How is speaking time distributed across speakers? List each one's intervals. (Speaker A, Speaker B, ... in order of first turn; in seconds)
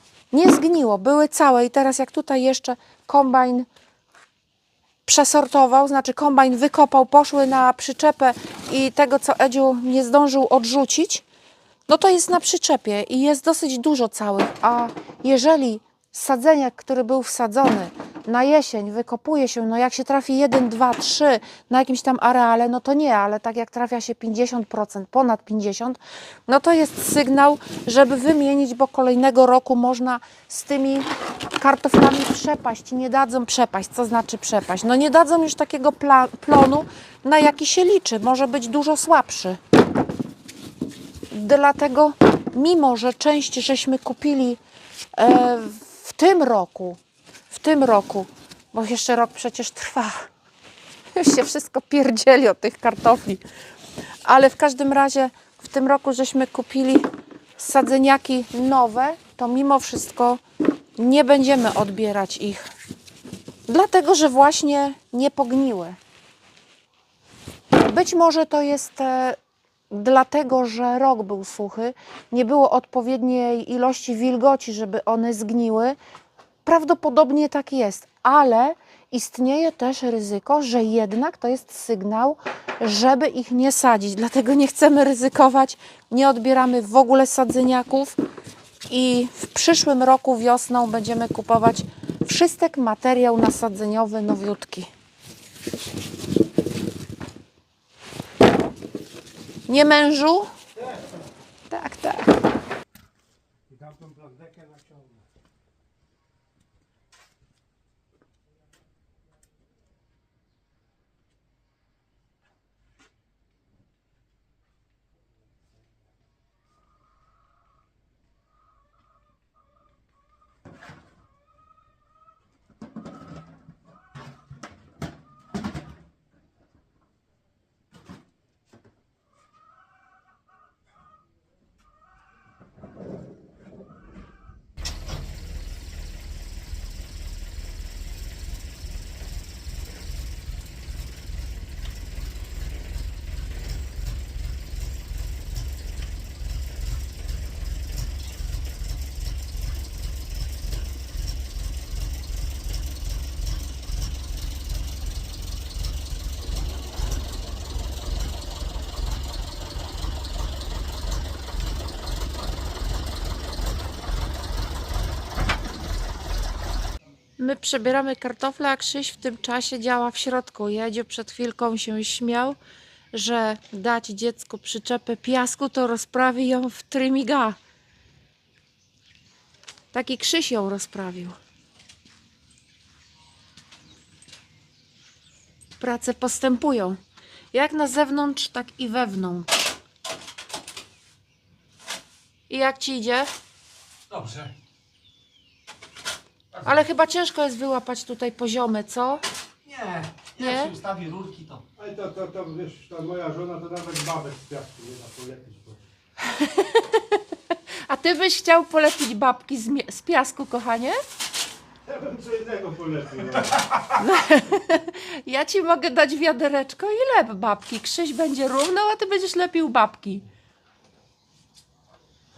Speaker A: 0.3-3.7, 5.0-11.2, 11.9-39.6, 41.3-44.6, 45.1-50.3, 51.1-53.4, 54.2-60.4, 61.0-62.7, 63.7-66.0, 67.7-69.4, 69.9-76.0, 76.6-88.2, 88.9-94.9, 99.7-100.5, 101.7-102.3, 167.4-172.6, 173.1-177.6, 179.9-181.3, 185.8-187.0, 187.5-189.5, 192.5-193.3, 196.6-199.2, 200.4-200.7, 206.2-207.2, 207.8-211.0, 213.9-220.2
Speaker B: 103.7-105.2, 201.8-205.8, 211.8-213.8
Speaker C: 194.1-194.5, 196.5-196.8, 199.6-201.6